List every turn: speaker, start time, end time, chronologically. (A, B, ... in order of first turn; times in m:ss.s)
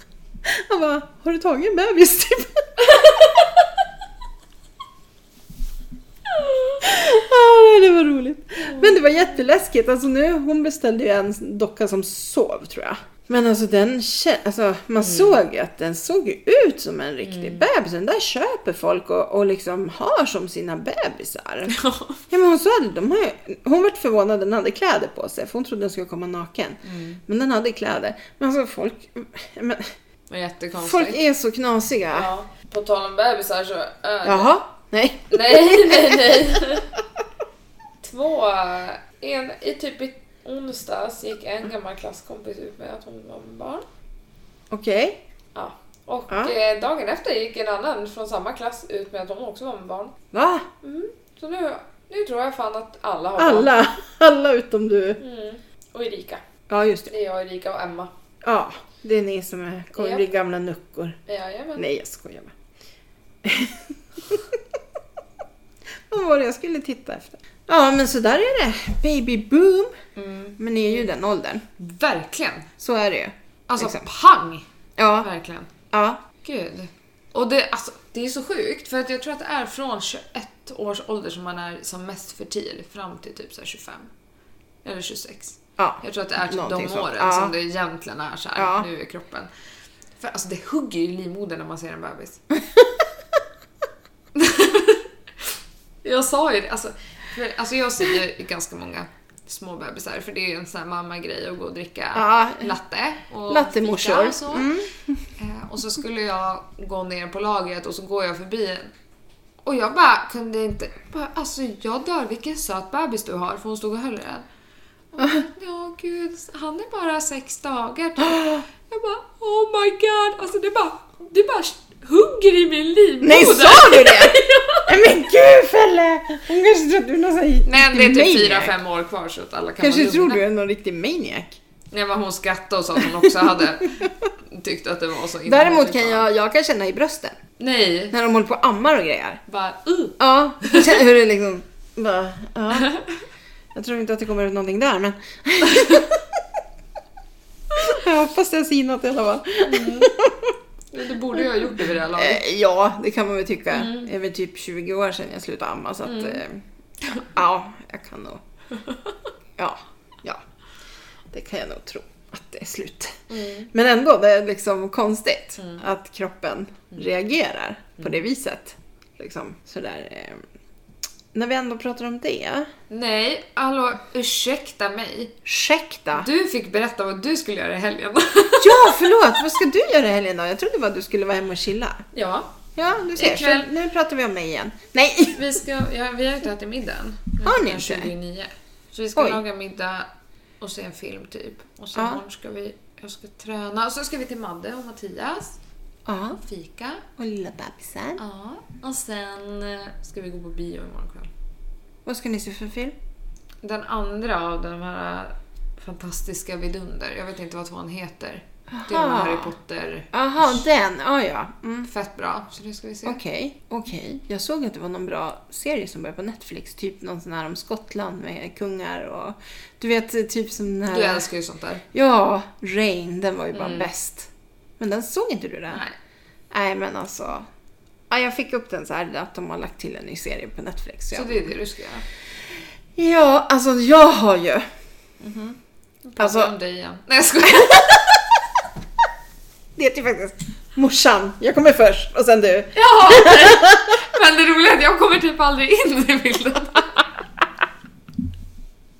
0:00.4-0:03.0 A
0:02.9-0:03.6 B
0:06.8-0:29.9 A
0:08.6-0:09.2 B
0:15.0-0:15.4 B
0:17.2-0:17.6 B
0:21.7-0:22.2 B
0:26.8-0:27.2 B
0:30.3-0:31.2 B
0:30.8-0:32.3 A
0:32.1-0:34.5 B
0:34.2-0:36.7 A
0:35.3-0:36.9 B
0:38.0-0:43.8 B
0:44.7-0:45.2 A
0:45.5-0:50.2 B
0:46.3-0:46.5 A
0:50.3-0:50.7 A
0:50.8-0:53.7 B
0:53.4-0:55.2 A
0:55.2-0:56.4 B
0:56.7-0:57.1 A
0:57.1-0:58.1 B
0:58.4-1:01.2 A
1:00.0-1:00.3 B
1:01.3-1:01.9 B
1:01.7-1:02.5 A
1:03.4-1:04.5 A
1:06.1-1:10.0 A
1:10.2-1:11.1 B
1:10.6-1:11.6 A
1:11.8-1:12.7 B
1:12.8-1:14.0 A
1:13.7-1:14.6 B
1:15.0-1:15.3 A
1:15.2-1:15.7 B
1:15.9-1:16.2 A
1:16.4-1:24.1 B
1:24.8-1:29.5 B
1:25.8-1:27.5 A
1:28.6-1:28.9 A
1:30.2-1:32.4 B
1:34.3-1:44.7 B
1:42.1-1:42.8 A
1:43.5-1:45.2 A
1:45.4-1:48.9 B
1:49.6-1:54.4 B
1:55.1-2:05.0 B
1:58.2-1:58.6 A
2:03.2-2:08.8 A
2:07.6-2:10.4 B
2:09.8-2:11.6 A
2:11.9-2:16.3 B
2:15.4-2:17.4 A
2:17.6-2:18.1 B
2:18.1-2:19.4 A
2:19.5-2:21.0 B
2:20.2-2:23.0 A
2:23.7-2:26.2 A
2:27.7-2:30.5 A
2:29.6-2:30.1 B
2:30.9-2:32.4 B
2:32.1-2:38.4 A
2:33.7-2:34.1 B
2:36.0-2:36.4 B
2:39.6-2:40.4 A
2:41.3-2:50.4 A
2:43.3-2:43.7 B
2:51.3-2:52.7 A
2:52.9-2:55.4 B
2:55.4-2:56.3 A
2:56.1-2:59.1 B
2:58.6-3:02.0 A
3:02.1-3:02.5 B
3:02.8-3:05.4 A
3:03.2-3:03.7 B
3:05.3-3:15.6 B
3:07.4-3:08.1 A
3:09.2-3:09.4 A
3:11.9-3:12.2 A
3:16.1-3:16.4 A
3:16.4-3:17.0 B
3:17.2-3:18.2 A
3:18.2-3:21.3 B
3:22.0-3:22.9 A
3:23.6-3:30.1 B
3:28.7-3:29.5 A
3:30.1-3:31.9 A
3:31.8-3:33.2 B
3:33.0-3:41.3 A
3:40.9-3:41.8 B
3:41.9-3:45.8 A
3:43.5-3:43.9 B
3:45.7-3:46.0 B
3:46.5-3:47.5 A
3:48.1-3:51.5 A
3:51.1-3:52.0 B
3:53.0-3:54.7 A
3:55.2-3:58.2 B
3:56.2-3:56.5 A
3:59.8-4:03.9 A
4:02.7-4:07.1 B